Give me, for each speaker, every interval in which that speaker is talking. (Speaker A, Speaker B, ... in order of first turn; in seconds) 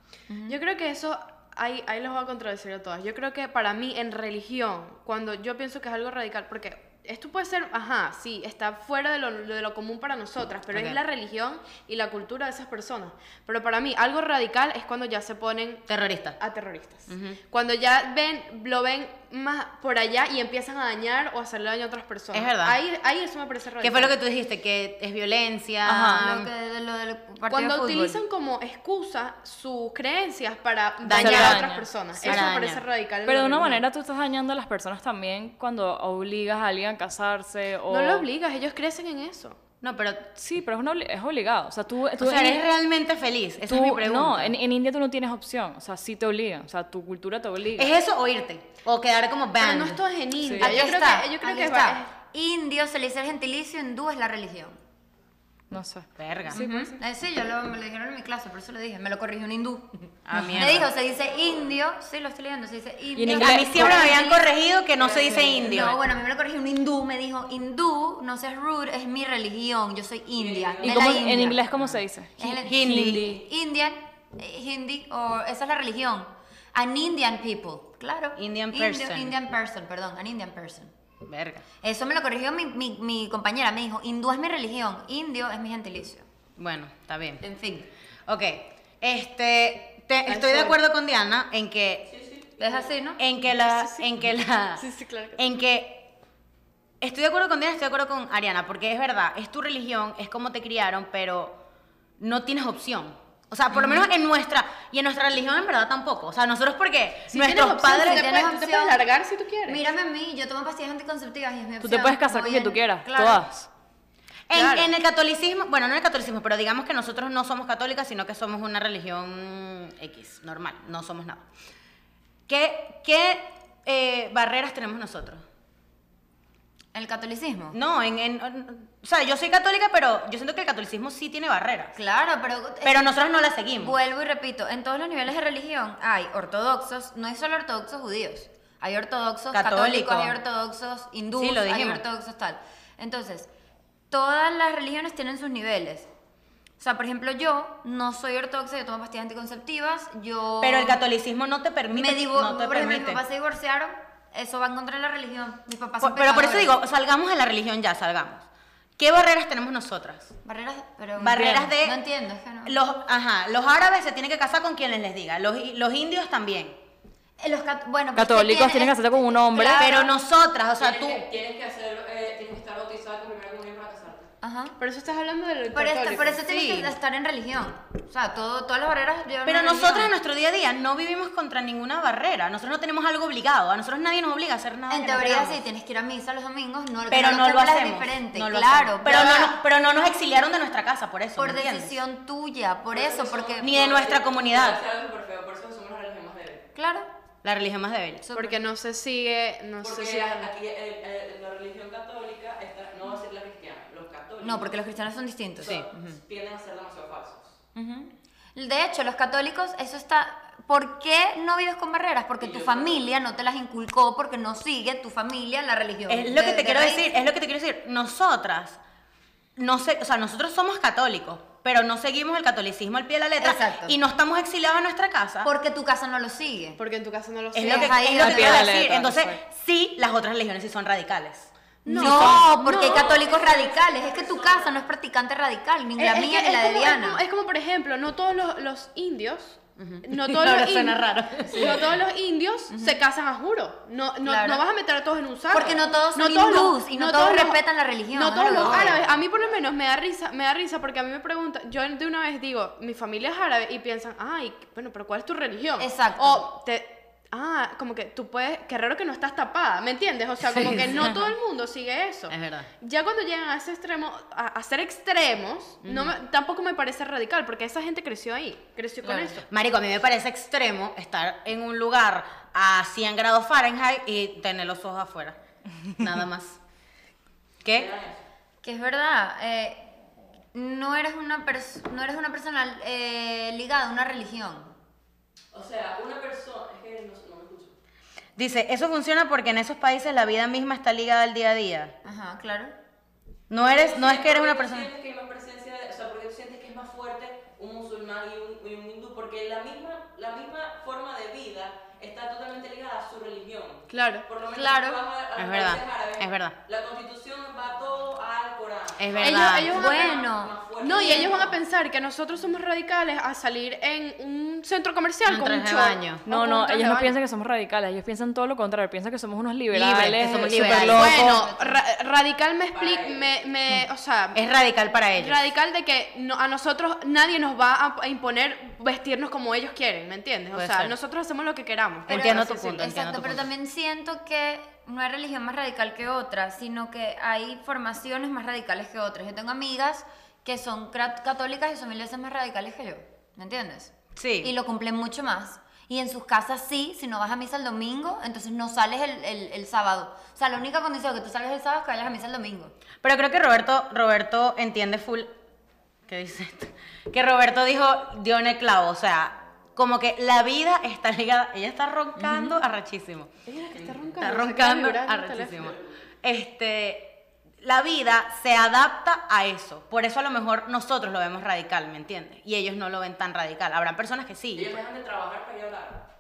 Speaker A: 0.3-0.6, 25.8-28.2, 50.6-54.8, 56.5-64.5, 65.2-71.7, 72.4-80.9, 81.8-86.2, 87.4-87.9, 92.6-93.2, 103.7-104.1, 107.8-109.0, 109.7-113.5, 126.9-127.8, 131.9-133.1, 133.8-143.5, 144.1-146.1, 146.8-151.0, 151.9-156.8, 160.4-162.8, 167.4-170.1, 174.4-174.8, 175.7-180.1, 184.9-189.6, 191.4-193.7, 196.7-197.1, 198.2-198.6, 204.4-206.2, 207.7-217.1, 223.4-224.0, 225.4-226.8, 227.6-228.8, 231.9-237.2, 242.7-243.0, 244.2-244.6, 245.5-249.0, 255.8-256.5, 269.0-269.4, 278.6-279.9, 280.5-284.7, 292.0-292.7, 304.5-305.0, 309.6-311.5, 320.7-321.8, 332.1-352.7, 362.2-362.5
Speaker B: 0.5-15.8, 16.4-24.1, 27.5-33.8, 37.9-39.6, 49.6-52.1, 90.2-90.8, 93.6-94.1, 94.8-95.5, 107.3-109.8, 114.5-114.9, 174.8-176.4, 198.3-200.5, 226.8-228.0, 231.8-233.7, 236.0-247.6, 248.1-269.4, 303.9-304.2, 309.2-310.2, 310.8-317.2, 320.9-324.4, 325.2-332.8, 363.5-365.7
Speaker C: 10.7-11.0, 15.9-16.4, 17.1-17.4, 22.3-22.8, 23.8-26.5, 31.0-32.8, 39.8-40.3, 42.2-44.5, 47.8-50.0, 56.2-56.6, 60.2-60.9, 63.3-66.0, 71.7-72.0, 72.6-73.4, 78.3-79.3, 81.2-81.6, 86.6-87.4, 88.3-92.1, 93.2-96.1, 97.0-101.6, 102.2-108.3, 114.5-121.4, 122.5-125.4, 127.7-131.9, 132.8-134.0, 139.5-140.4, 141.4-142.0, 150.6-153.2, 156.0-158.4, 159.0-160.3, 161.2-162.0, 162.6-166.8, 169.8-171.2, 176.4-176.9, 179.4-185.6, 187.1-192.0, 193.6-194.8, 197.4-198.2, 205.6-205.9, 216.1-218.8, 219.6-225.5, 227.5-232.4, 239.8-242.0, 248.5-249.0, 260.4-261.2, 262.3-262.7, 265.8-266.1, 269.5-275.4, 275.9-276.6, 277.6-277.9, 288.4-291.9, 293.5-294.9, 305.4-306.6, 309.0-309.7, 315.2-316.2, 319.7-321.3, 324.3-325.4, 330.5-330.9, 332.1-333.5, 344.1-344.5, 353.0-355.3, 356.1-374.8
Speaker D: 31.1-32.4, 33.2-38.3, 40.4-42.6, 43.6-47.9, 50.4-50.8, 55.7-57.0, 63.2-64.1, 70.8-73.4, 111.8-113.7, 168.1-169.9, 228.2-229.4, 316.2-321.4
Speaker E: 65.0-65.5, 70.3-71.4, 92.1-92.9, 170.8-174.3, 192.9-196.7, 199.8-204.8, 205.6-207.6, 212.4-213.1, 232.7-234.7, 248.5-249.2, 277.7-278.2, 285.5-287.7, 293.6-311.5, 322.7-323.5, 365.7-366.0, 374.5-376.1